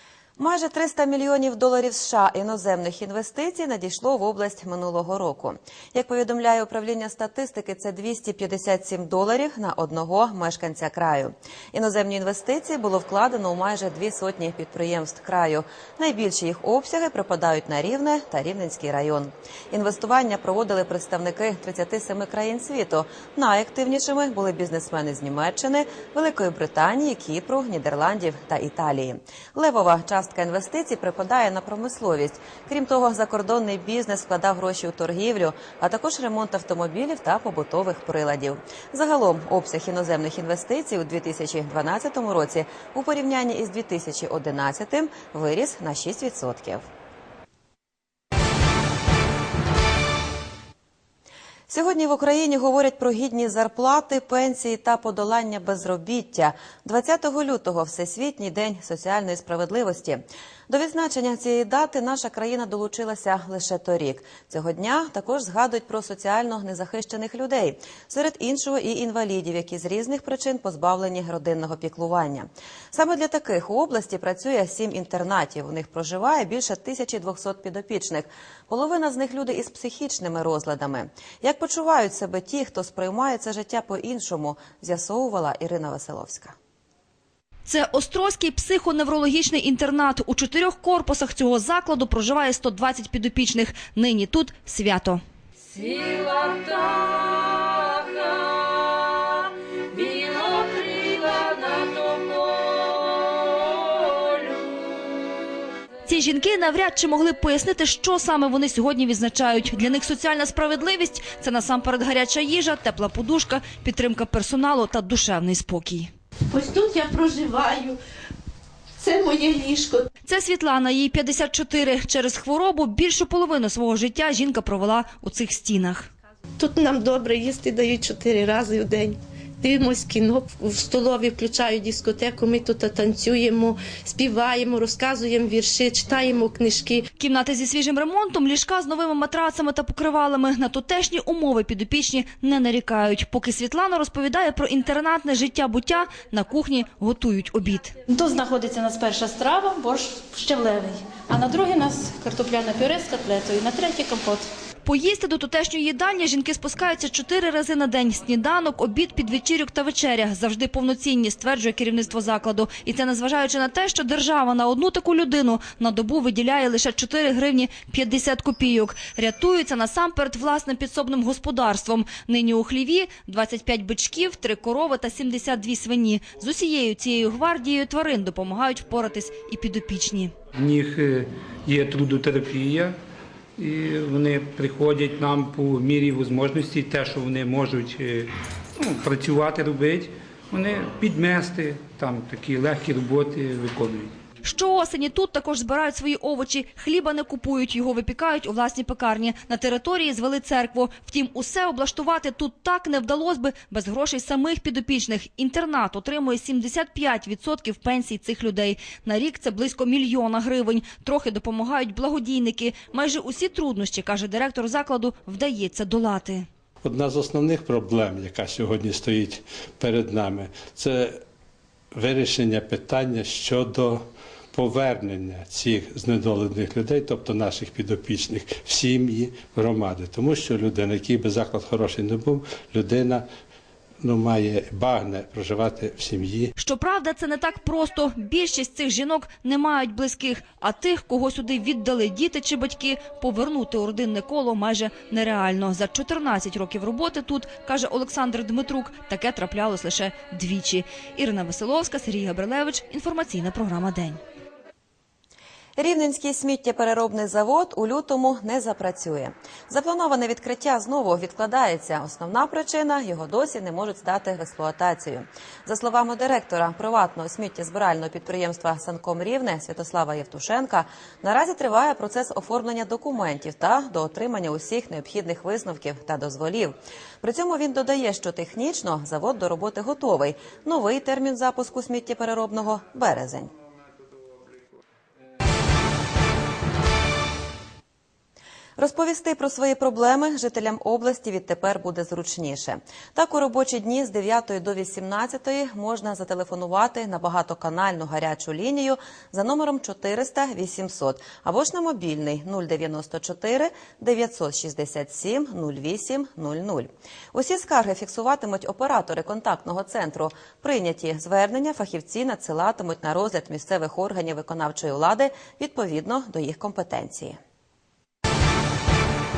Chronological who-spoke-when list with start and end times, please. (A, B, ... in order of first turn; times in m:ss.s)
0:00.4-0:46.9 A
0:51.7-1:26.6 A
1:27.7-1:35.2 B
1:46.0-1:56.1 B
1:56.5-1:58.0 C
1:59.0-2:00.0 C
2:00.2-2:06.1 B
2:06.6-2:17.0 C
2:17.2-2:27.9 B
2:28.1-2:34.4 D
2:34.8-3:00.3 B
3:00.6-3:02.9 E
3:03.6-3:08.3 E
3:08.9-3:14.1 E
3:14.4-3:36.5 B
3:36.8-3:41.2 F
3:41.9-3:53.3 F
3:54.0-3:56.5 F
3:56.6-4:14.2 B
4:15.8-4:43.5 A
4:48.8-5:17.4 A